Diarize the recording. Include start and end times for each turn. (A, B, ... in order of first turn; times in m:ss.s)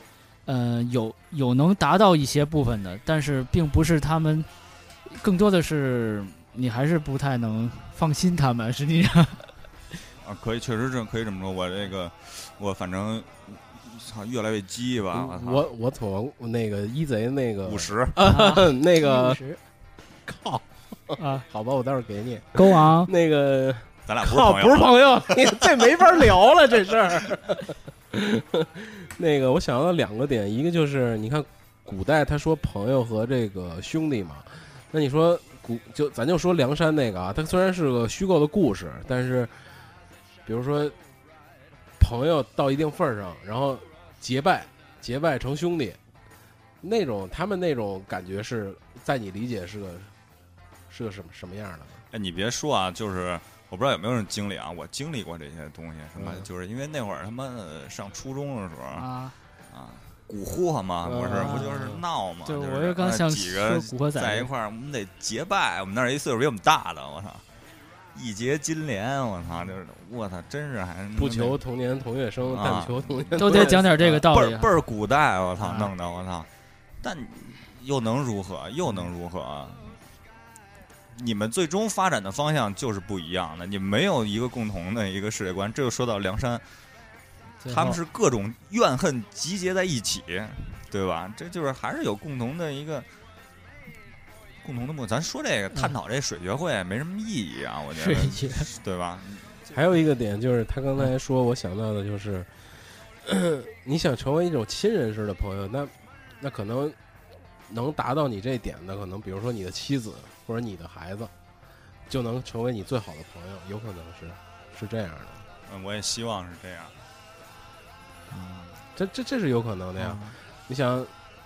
0:00.5-0:04.5 A
0:05.1-0:09.5 A
0:10.2-0:15.6 B
0:15.1-0:19.4 C
0:17.6-0:18.2 B
0:18.2-0:19.6 A
0:20.2-0:39.7 C
0:21.2-0:21.5 A
0:22.5-0:23.1 A
0:24.1-0:25.6 B
0:40.4-0:41.0 C
0:42.0-0:46.0 C
0:46.8-0:50.1 C
0:50.9-0:52.0 C
0:52.1-0:59.1 B
0:56.2-0:56.5 C
0:59.0-0:59.4 A
0:59.7-1:07.4 B
1:01.0-1:01.6 C
1:01.3-1:04.5 A
1:08.1-1:11.6 B
1:11.2-1:13.8 C
1:12.5-1:16.5 B
1:13.4-1:14.7 A
1:15.6-1:15.9 A
1:17.0-1:20.0 B
1:21.1-1:26.6 B
1:27.6-1:28.0 A
1:27.7-1:33.1 B
1:34.6-1:39.7 B
1:38.0-1:38.7 A
1:39.7-1:42.5 C
1:43.2-1:47.0 C
1:47.7-1:51.3 C
1:52.1-1:55.4 C
1:55.7-1:56.9 B
1:58.3-1:58.8 A
1:59.0-2:01.1 C
2:00.0-2:00.4 A